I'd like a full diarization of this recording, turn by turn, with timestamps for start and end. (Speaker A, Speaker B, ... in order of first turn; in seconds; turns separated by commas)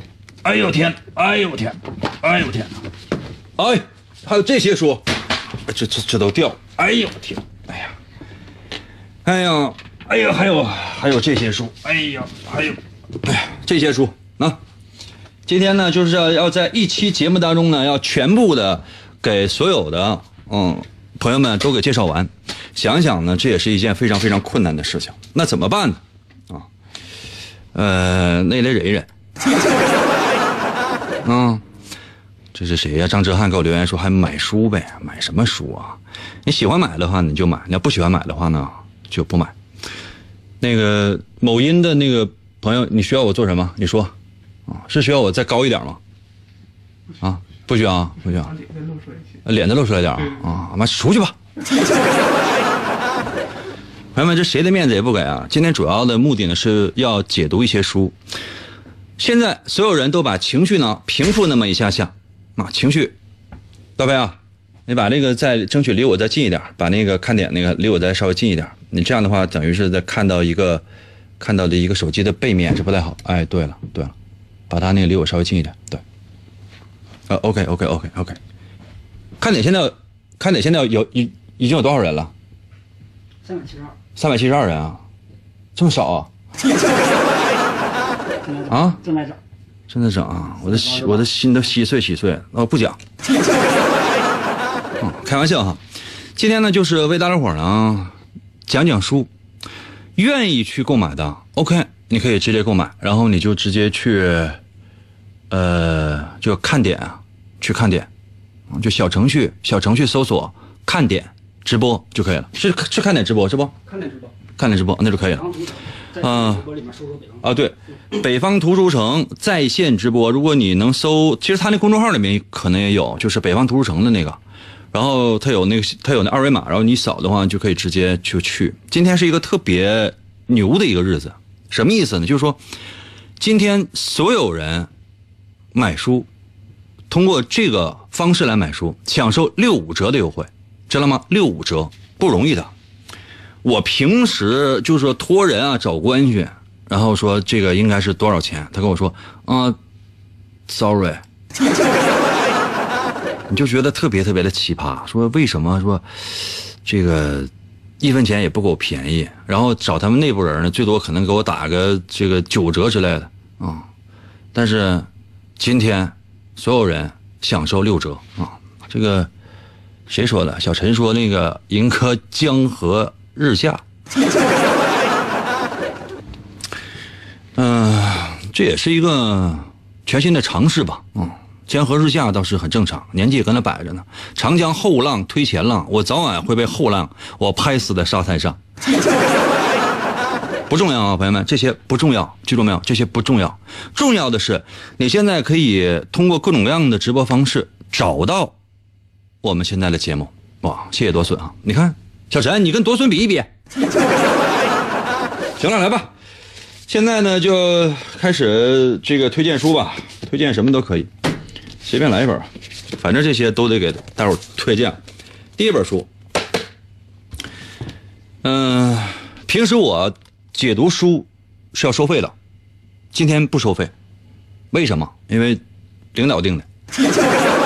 Speaker A: 0.4-2.8, Speaker A: 3.6-5.0, Speaker A: 5.7-7.9, Speaker A: 9.2-14.6, Speaker A: 15.5-26.7, Speaker A: 27.7-29.1, Speaker A: 31.2-31.6, Speaker A: 32.5-39.5, Speaker A: 40.6-44.1, Speaker A: 44.7-46.0, Speaker A: 47.2-48.6, Speaker A: 49.4-51.4, Speaker A: 54.1-58.1, Speaker A: 59.2-63.2, Speaker A: 64.0-70.8, Speaker A: 71.4-74.1, Speaker A: 74.7-76.0, Speaker A: 77.3-78.4, Speaker A: 79.4-82.3, Speaker B: 83.5-83.9, Speaker A: 84.2-85.0, Speaker A: 85.8-86.3, Speaker B: 88.4-89.4, Speaker A: 88.7-89.0, Speaker A: 89.9-93.0, Speaker B: 90.7-91.2, Speaker A: 95.0-95.8, Speaker A: 96.4-98.1, Speaker A: 98.7-99.3, Speaker A: 100.2-104.6, Speaker A: 105.5-108.1, Speaker A: 108.7-113.8, Speaker B: 113.9-114.3, Speaker A: 114.6-115.5, Speaker B: 115.3-117.4, Speaker A: 116.2-116.7, Speaker A: 117.4-124.4, Speaker A: 124.9-132.6, Speaker A: 133.4-134.9, Speaker A: 135.7-136.3, Speaker A: 137.1-142.7, Speaker A: 143.6-149.8, Speaker A: 150.7-151.2, Speaker A: 153.5-163.9, Speaker A: 164.5-169.3, Speaker A: 170.1-173.8, Speaker A: 177.6-188.6, Speaker A: 190.7-198.6, Speaker A: 199.4-203.5, Speaker A: 205.6-206.1, Speaker A: 206.9-211.1, Speaker A: 211.8-215.0, Speaker A: 215.6-216.1, Speaker A: 218.4-222.3, Speaker A: 223.1-223.9, Speaker A: 224.7-225.6, Speaker A: 226.1-226.7